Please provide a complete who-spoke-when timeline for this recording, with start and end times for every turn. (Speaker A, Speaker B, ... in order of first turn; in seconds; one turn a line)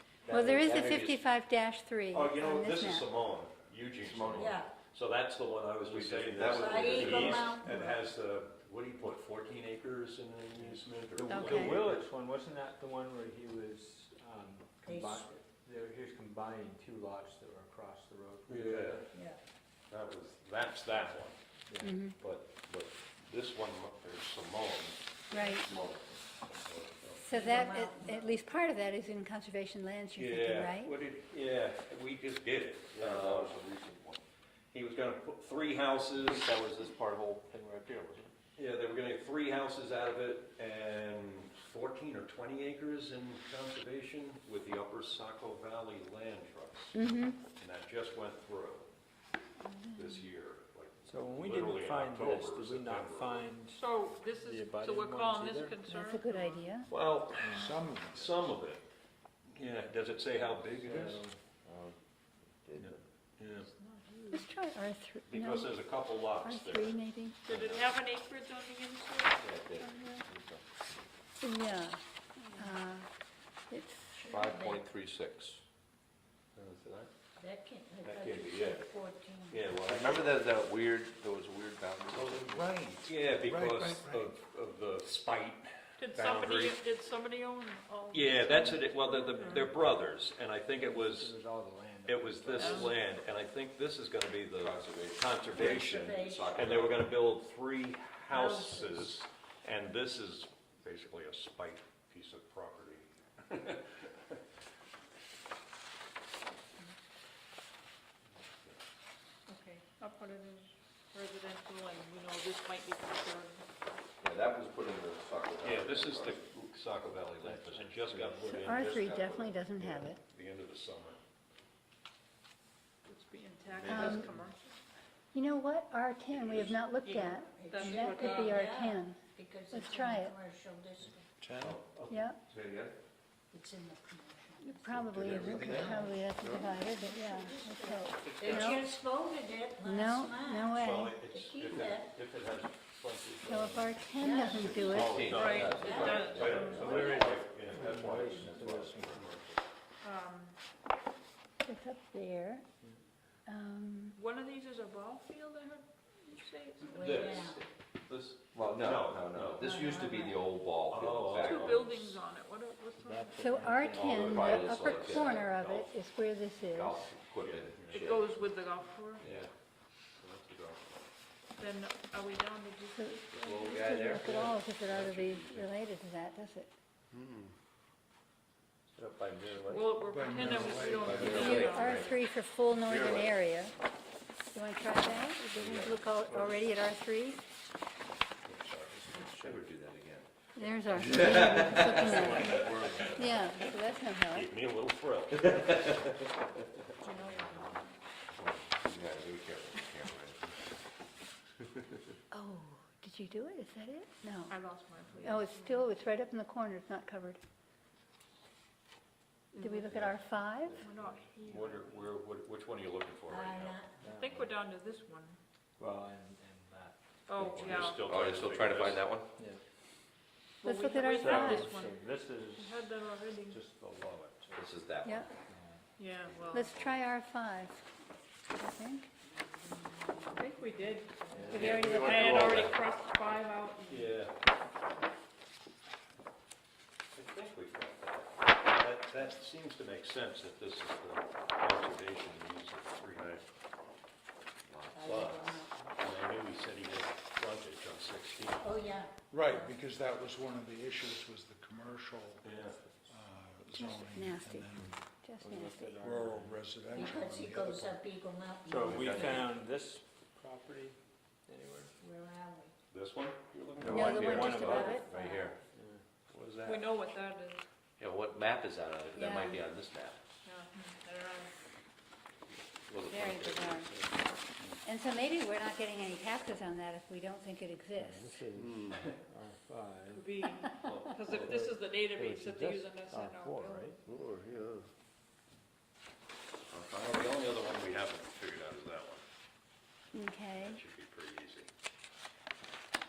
Speaker A: 0.2-1.2
Speaker B: 0.3-3.1
Speaker C: 2.1-12.1
Speaker A: 4.0-4.5
Speaker D: 4.4-4.7
Speaker A: 5.8-7.5
Speaker D: 6.5-8.0
Speaker E: 11.1-19.0
Speaker B: 11.3-11.8
Speaker D: 14.8-15.4
Speaker C: 18.5-19.0
Speaker D: 19.1-19.4
Speaker C: 19.9-21.4
Speaker E: 21.7-22.0
Speaker B: 21.8-22.1
Speaker C: 22.1-25.0
Speaker B: 25.3-25.7
Speaker A: 25.4-26.2
Speaker C: 26.5-27.7
Speaker B: 27.2-30.9
Speaker D: 27.3-28.4
Speaker C: 30.1-33.6
Speaker A: 33.0-34.2
Speaker C: 34.7-36.5
Speaker A: 36.2-38.3
Speaker C: 38.5-48.9
Speaker B: 46.9-47.4
Speaker B: 49.6-50.1
Speaker C: 49.9-53.5
Speaker E: 51.0-55.8
Speaker F: 53.7-56.7
Speaker B: 55.9-56.9
Speaker C: 56.9-58.8
Speaker E: 57.4-57.8
Speaker G: 57.5-58.4
Speaker C: 59.5-61.2
Speaker E: 60.8-61.4
Speaker A: 61.6-62.0
Speaker A: 62.6-63.0
Speaker C: 62.8-63.7
Speaker F: 63.6-64.5
Speaker B: 64.3-65.8
Speaker C: 65.3-67.9
Speaker B: 66.4-67.4
Speaker F: 67.4-70.2
Speaker A: 69.4-70.6
Speaker B: 71.4-73.1
Speaker B: 73.7-74.2
Speaker D: 74.1-74.8
Speaker A: 74.2-75.6
Speaker C: 76.5-77.1
Speaker D: 77.3-79.7
Speaker C: 78.0-78.9
Speaker C: 79.5-80.4
Speaker A: 79.8-82.6
Speaker G: 82.1-84.3
Speaker C: 83.0-86.8
Speaker F: 86.0-89.7
Speaker C: 88.1-91.3
Speaker E: 90.7-93.0
Speaker C: 92.0-104.4
Speaker F: 92.5-92.9
Speaker A: 94.5-97.1
Speaker D: 95.6-96.6
Speaker D: 98.3-99.0
Speaker F: 109.5-113.7
Speaker A: 114.2-116.4
Speaker C: 115.6-121.2
Speaker E: 117.4-118.4
Speaker B: 118.4-120.2
Speaker A: 118.7-119.5
Speaker F: 123.0-124.6
Speaker C: 123.8-124.2
Speaker A: 123.8-124.3
Speaker B: 123.8-124.3
Speaker B: 125.3-130.4
Speaker C: 126.4-126.7
Speaker D: 127.0-131.3
Speaker F: 127.7-128.7
Speaker G: 131.4-131.8
Speaker C: 131.6-132.3
Speaker B: 132.1-132.4
Speaker A: 132.5-132.9
Speaker D: 133.5-135.1
Speaker B: 134.6-138.9
Speaker A: 135.1-136.1
Speaker G: 135.3-135.9
Speaker D: 136.4-142.1
Speaker C: 138.2-138.8
Speaker B: 139.8-141.1
Speaker C: 140.7-143.9
Speaker B: 143.4-145.4
Speaker D: 144.2-146.2
Speaker A: 144.7-149.3
Speaker C: 145.0-149.5
Speaker F: 145.2-147.3
Speaker E: 146.9-149.3
Speaker F: 150.0-150.6
Speaker B: 151.6-152.6
Speaker B: 153.4-154.2
Speaker F: 154.1-157.3
Speaker C: 156.8-159.8
Speaker D: 156.8-157.7
Speaker A: 158.5-162.1
Speaker B: 159.8-160.3
Speaker F: 159.9-160.3
Speaker C: 160.8-161.9
Speaker F: 161.3-164.0
Speaker E: 163.0-164.7
Speaker B: 163.4-167.1
Speaker A: 164.0-165.9
Speaker C: 164.1-165.8
Speaker A: 166.7-168.3
Speaker C: 167.4-168.2
Speaker F: 167.9-169.2
Speaker A: 169.2-169.5
Speaker C: 169.2-169.5
Speaker C: 170.2-171.1
Speaker F: 171.6-174.0
Speaker B: 172.9-176.7
Speaker C: 173.4-175.6
Speaker A: 173.4-174.5
Speaker C: 178.9-179.8
Speaker F: 179.7-182.1
Speaker G: 180.1-182.0
Speaker A: 180.9-182.1
Speaker B: 181.3-183.7
Speaker A: 182.8-183.3
Speaker B: 184.5-187.4
Speaker C: 188.4-189.5
Speaker A: 189.2-190.3
Speaker B: 190.6-194.5
Speaker A: 190.9-193.3
Speaker E: 191.2-193.3
Speaker C: 194.3-196.1
Speaker F: 197.0-197.9
Speaker A: 198.4-200.5
Speaker B: 202.3-204.6
Speaker F: 204.5-205.9
Speaker B: 205.2-207.4
Speaker B: 209.5-210.8
Speaker F: 209.5-209.9
Speaker E: 209.9-211.8
Speaker F: 210.8-212.0
Speaker C: 211.5-213.8
Speaker D: 213.3-213.9
Speaker E: 214.0-214.5
Speaker F: 214.1-215.4
Speaker E: 215.8-218.0
Speaker F: 217.3-218.0
Speaker C: 217.6-219.1
Speaker A: 218.0-219.3
Speaker E: 219.4-219.6
Speaker F: 220.6-223.6
Speaker B: 220.6-221.7
Speaker E: 221.1-222.9
Speaker E: 223.4-224.6
Speaker A: 224.5-225.3
Speaker B: 225.0-225.3
Speaker E: 225.5-225.8
Speaker F: 226.0-226.7
Speaker B: 226.5-227.8
Speaker B: 228.6-229.1
Speaker F: 230.3-234.1
Speaker E: 231.3-232.1
Speaker C: 231.5-232.8
Speaker B: 231.5-232.4
Speaker A: 231.6-232.8
Speaker C: 233.9-234.3
Speaker C: 237.1-243.4
Speaker A: 244.7-245.0
Speaker D: 244.9-245.7
Speaker C: 245.0-249.0
Speaker D: 248.6-249.7
Speaker G: 249.3-255.0
Speaker C: 252.4-252.8
Speaker B: 253.7-255.9
Speaker E: 255.4-256.6
Speaker G: 256.0-258.0
Speaker D: 256.9-259.5
Speaker E: 258.6-261.9
Speaker A: 258.9-259.4
Speaker D: 262.0-262.7
Speaker C: 262.9-264.9
Speaker A: 263.8-265.6
Speaker E: 263.8-264.8
Speaker B: 263.8-265.1
Speaker D: 264.7-265.6
Speaker E: 265.7-266.0
Speaker C: 266.3-266.8
Speaker F: 266.6-267.6
Speaker A: 268.0-270.2
Speaker B: 269.1-269.6
Speaker F: 270.4-271.5
Speaker A: 272.9-274.2
Speaker B: 273.1-273.9
Speaker B: 274.8-278.3
Speaker E: 277.9-280.3
Speaker F: 280.1-283.9
Speaker C: 280.8-281.5
Speaker E: 281.3-284.0
Speaker A: 284.1-284.8
Speaker C: 286.7-289.2
Speaker B: 290.1-290.8
Speaker C: 290.5-291.7